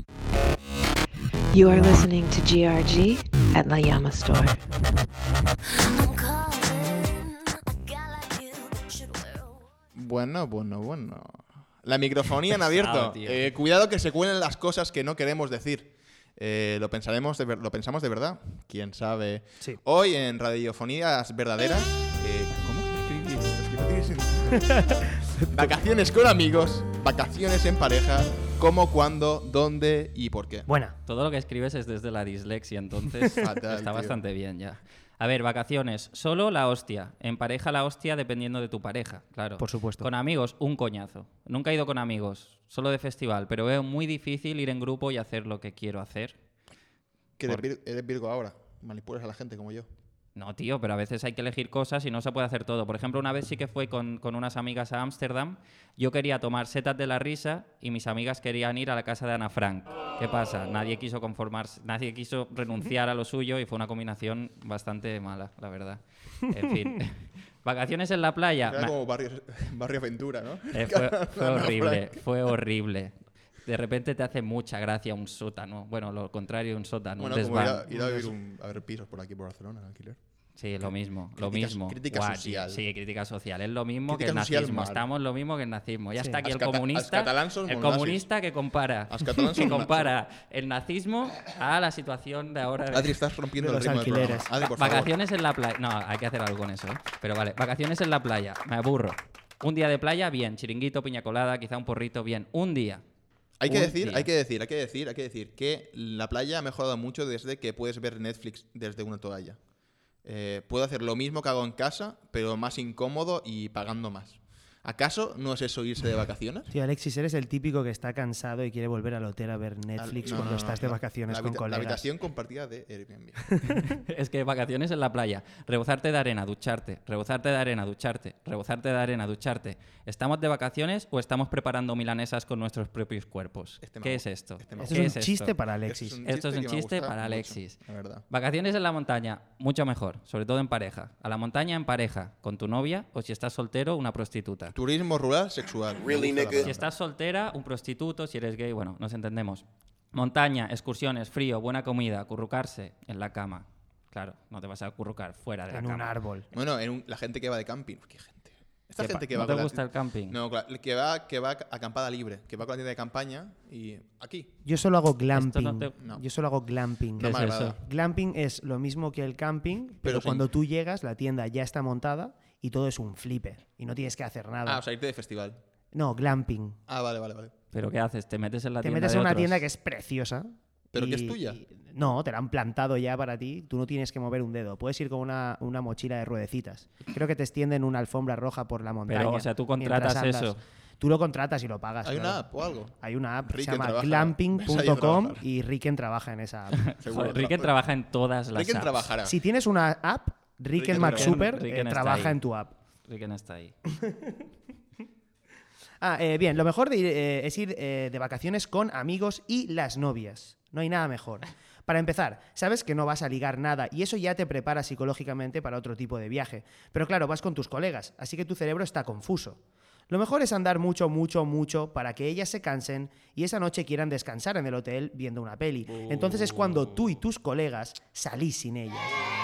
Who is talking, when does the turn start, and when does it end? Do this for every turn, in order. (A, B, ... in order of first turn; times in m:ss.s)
0:01.5-0:04.6 A
0:06.0-0:06.6 B
0:07.9-0:09.4 B
0:09.9-0:24.8 C
0:12.6-0:13.5 D
0:25.5-0:30.7 C
0:30.7-0:31.0 E
0:31.1-0:46.4 D
0:33.4-0:34.2 C
0:39.6-0:40.1 E
0:47.4-0:49.9 C
0:50.4-1:08.9 D
1:08.7-1:12.2 C
1:10.7-1:18.2 D
1:17.2-1:20.2 C
1:20.6-1:33.2 D
1:21.4-1:22.8 C
1:24.1-1:25.1 C
1:26.4-1:28.3 C
1:29.1-1:30.2 C
1:32.9-1:35.1 C
1:33.6-1:34.5 E
1:34.8-1:43.0 D
1:43.6-1:49.6 C
1:43.7-1:44.3 D
1:50.2-1:56.7 C
1:56.7-2:02.0 E
2:00.0-2:03.5 C
2:04.0-2:15.5 D
2:13.8-2:15.2 C
2:14.8-2:16.2 E
2:15.8-2:18.2 C
2:16.2-2:24.8 D
2:24.7-2:26.9 C
2:26.6-2:36.1 D
2:35.7-2:36.5 E
2:36.5-2:44.5 C
2:39.0-2:40.4 D
2:44.6-2:54.8 E
2:45.3-2:45.9 D
2:47.2-2:47.8 C
2:47.2-2:47.8 D
2:50.0-2:50.5 C
2:54.6-2:55.6 C
2:55.9-2:56.8 E
2:56.9-2:57.5 C
2:57.7-2:59.6 D
2:58.8-3:12.4 E
3:00.9-3:01.6 C
3:09.1-3:10.6 D
3:12.0-3:15.4 C
3:13.0-3:16.9 E
3:16.8-3:19.1 D
3:17.0-3:17.8 C
3:18.5-3:19.4 C
3:19.2-3:22.7 E
3:20.7-3:21.4 C
3:20.9-3:22.4 D
3:23.1-3:23.8 D
3:24.0-3:24.3 E
3:26.0-3:49.2 E